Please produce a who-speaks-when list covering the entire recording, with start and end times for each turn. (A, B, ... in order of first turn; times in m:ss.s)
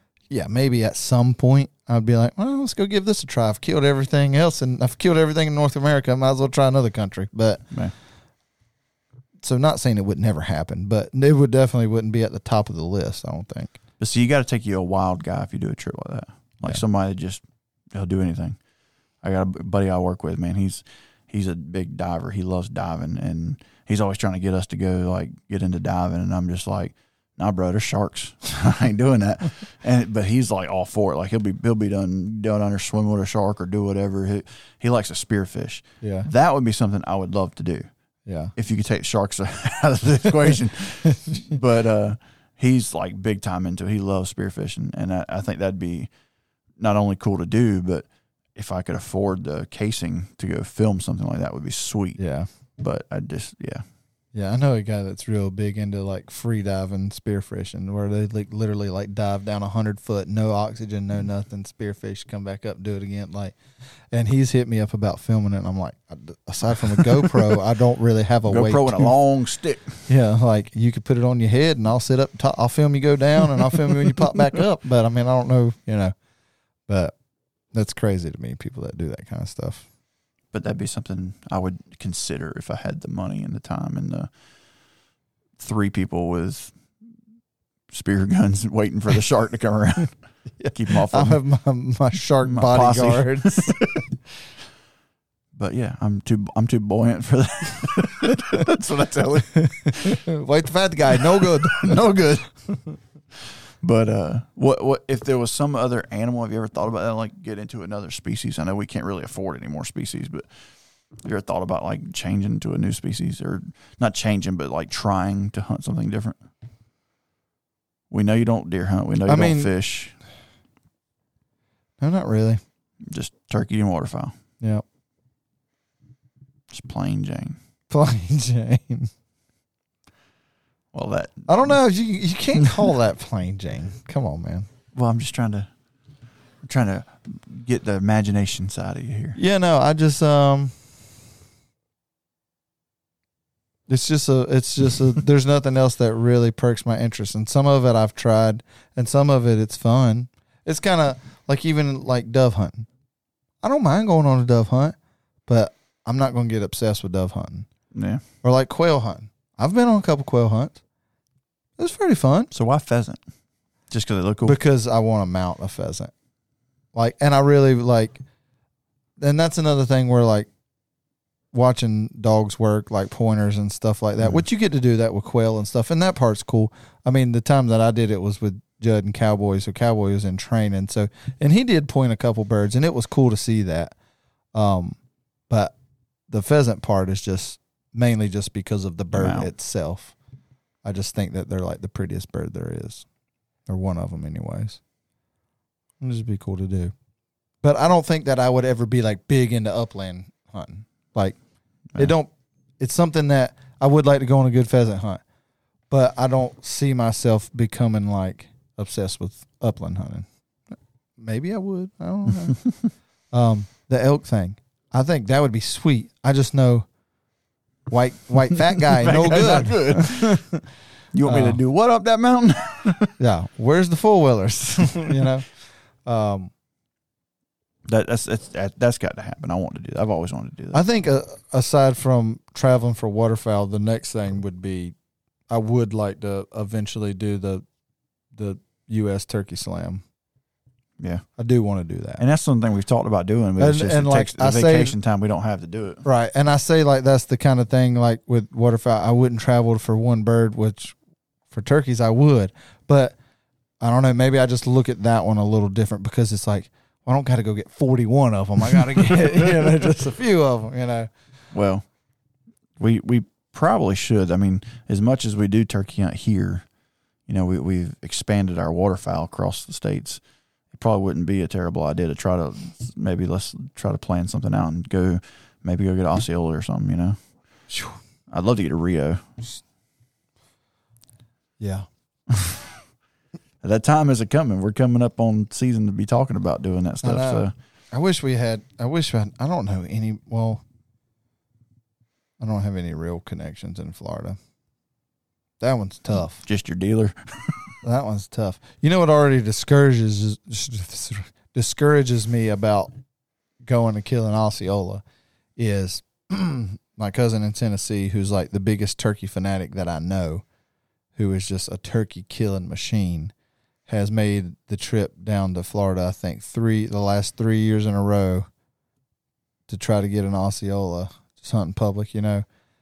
0:00.3-0:07.6 A
0:09.4-0:13.8 A
0:14.0-0:18.6 B
0:19.2-0:37.9 B
0:36.0-0:36.3 A
0:38.3-0:38.5 A
0:38.6-0:46.1 B
0:46.8-0:52.2 B
0:52.2-0:52.5 A
0:52.8-0:53.8 B
0:54.3-1:03.6 A
1:04.1-1:09.1 A
1:08.5-1:10.0 B
1:10.1-1:16.1 A
1:16.9-1:17.2 A
1:17.7-1:19.9 A
1:20.5-1:24.3 B
1:25.6-1:26.8 B
1:27.9-1:30.2 B
1:30.6-1:34.0 A
1:30.7-1:31.4 B
1:32.4-1:33.8 B
1:35.6-1:40.2 B
1:39.9-1:42.0 A
1:41.2-1:42.5 B
1:43.8-1:50.5 B
1:51.2-1:56.4 B
1:58.1-2:00.2 B
1:59.3-1:59.7 A
2:02.0-2:02.6 A
2:03.1-2:04.3 B
2:06.7-2:07.6 B
2:07.9-2:09.1 A
2:10.9-2:11.8 B
2:11.5-2:14.7 A
2:12.6-2:12.9 B
2:15.0-2:15.7 B
2:16.6-2:19.4 B
2:19.4-2:20.7 A
2:23.9-2:32.9 A
2:33.6-2:35.0 A
2:35.5-2:37.7 A
2:37.9-2:38.2 B
2:38.4-2:40.8 A
2:41.8-2:42.5 A
2:42.5-2:43.2 B
2:43.9-2:44.6 B
2:44.4-2:46.1 A
2:46.9-2:48.2 A
2:49.2-2:50.5 A
2:51.5-3:04.0 A
3:04.5-3:05.0 A
3:05.5-3:05.7 A
3:06.3-3:10.2 A
3:09.1-3:09.5 B
3:10.8-3:13.1 A
3:13.7-3:14.8 A
3:16.0-3:16.9 A
3:17.6-3:21.4 A
3:22.0-3:25.2 A
3:25.9-3:30.3 A
3:31.2-3:32.6 A
3:33.3-3:36.9 A
3:37.9-3:40.6 A
3:38.6-3:40.5 B
3:41.1-3:43.1 B
3:41.2-3:41.6 A
3:43.2-3:45.5 A
3:46.0-3:46.5 A
3:47.9-3:50.8 B
3:50.7-3:55.0 A
3:55.5-3:57.6 A
3:58.3-4:00.0 A
4:01.0-4:01.2 B
4:01.4-4:02.2 A
4:02.2-4:06.0 B
4:03.6-4:05.0 A
4:06.0-4:11.0 A
4:11.5-4:13.2 A
4:13.8-4:21.1 A
4:18.7-4:19.8 B
4:21.5-4:21.8 B
4:22.8-4:26.7 B
4:27.3-4:30.2 B
4:30.7-4:37.2 B
4:37.7-4:38.0 A
4:38.3-4:39.3 B
4:41.6-4:41.9 A
4:43.6-4:47.5 B
4:47.0-4:50.6 A
4:52.4-4:54.4 A
4:55.6-4:56.4 A
4:56.4-4:57.7 B
4:57.8-5:02.9 A
5:03.6-5:05.0 A
5:05.6-5:10.4 A
5:11.2-5:13.3 A
5:13.9-5:18.5 A
5:19.7-5:22.4 A